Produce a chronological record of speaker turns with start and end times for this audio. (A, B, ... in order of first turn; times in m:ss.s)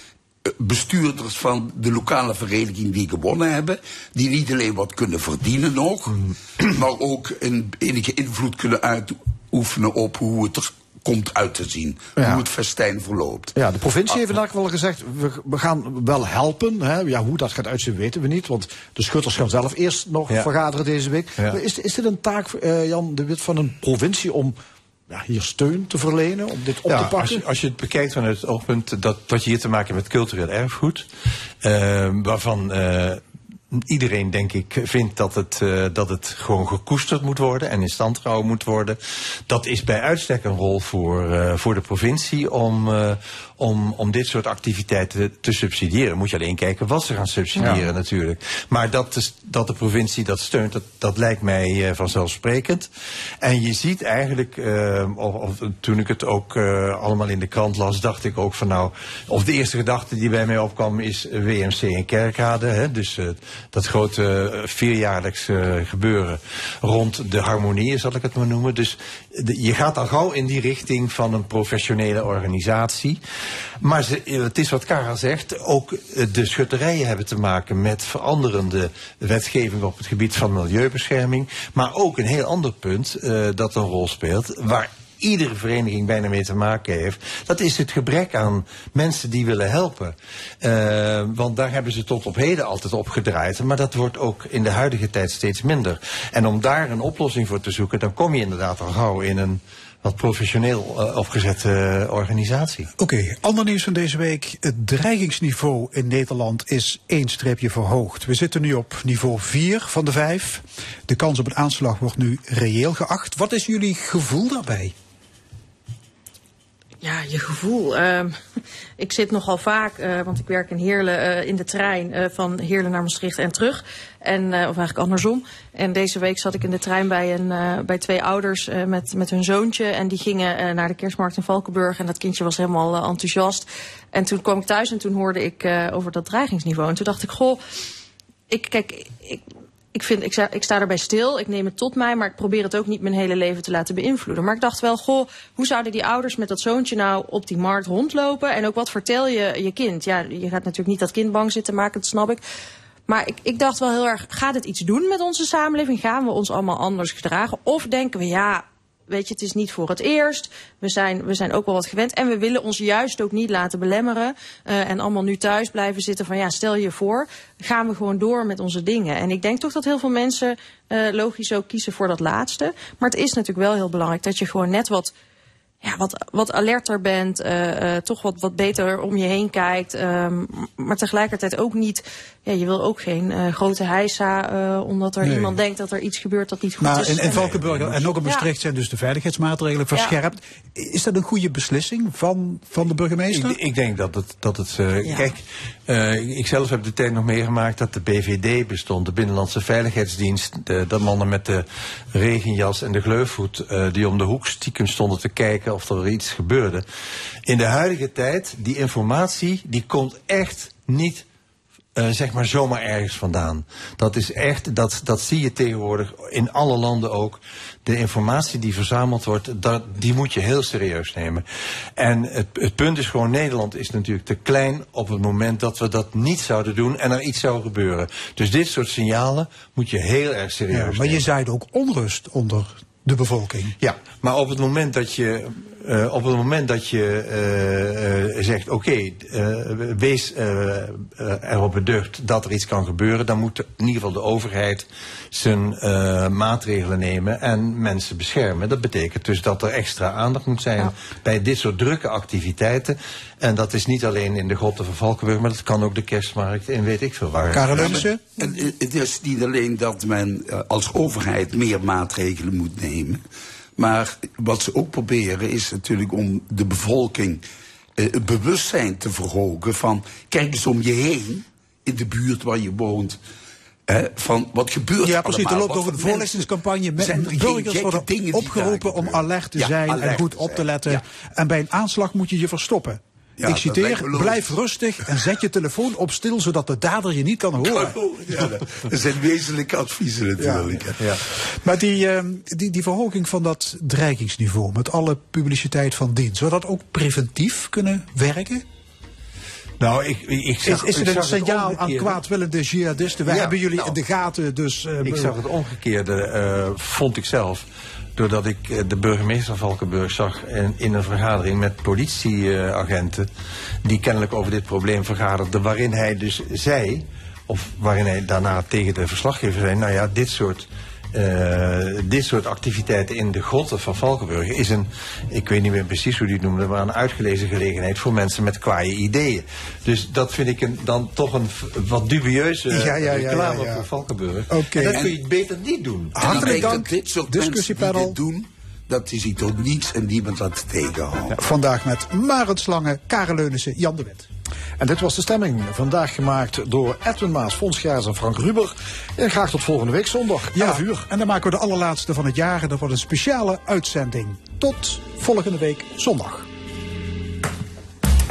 0:00.5-0:13.5 A
0:12.2-0:12.5 B
0:13.5-0:24.6 B
0:25.1-0:27.4 B
0:26.9-0:31.1 C
0:31.6-0:33.2 C
0:33.7-0:52.9 C
0:53.4-1:13.2 C
1:13.8-1:42.9 C
1:43.0-1:54.9 D
1:57.0-1:58.3 E
1:59.0-2:17.6 E
2:18.5-2:19.4 E
2:19.9-2:32.4 E
2:33.1-2:55.1 E
2:55.8-3:07.6 E
3:05.2-3:05.6 D
3:06.8-3:13.6 D
3:07.4-3:08.1 C
3:08.1-3:08.5 E
3:09.9-3:10.2 E
3:13.3-3:26.8 C
3:15.0-3:15.3 E
3:27.5-3:31.2 C
3:32.0-3:41.4 C
3:42.0-3:51.2 C
3:50.7-3:53.8 D
3:53.8-4:18.0 C
4:17.5-4:18.2 D
4:17.7-4:23.2 A
4:23.8-4:27.4 A
4:28.0-4:33.2 A
4:33.9-4:41.0 A
4:35.0-4:48.5 D
4:43.4-4:44.6 A
4:45.1-4:45.4 A
4:47.6-4:51.2 A
4:50.4-4:50.8 D
4:51.4-4:58.6 D
4:59.8-5:02.2 C
5:00.6-5:05.4 D
5:03.2-5:04.0 C
5:05.0-5:07.6 C
5:08.2-5:13.3 C
5:13.8-5:36.3 C
5:32.7-5:33.9 D
5:34.5-5:35.1 D
5:34.9-5:35.1 A
5:36.1-5:38.2 D
5:36.2-5:41.3 A
5:41.3-5:44.3 D
5:44.8-5:51.1 B
5:50.5-5:56.5 D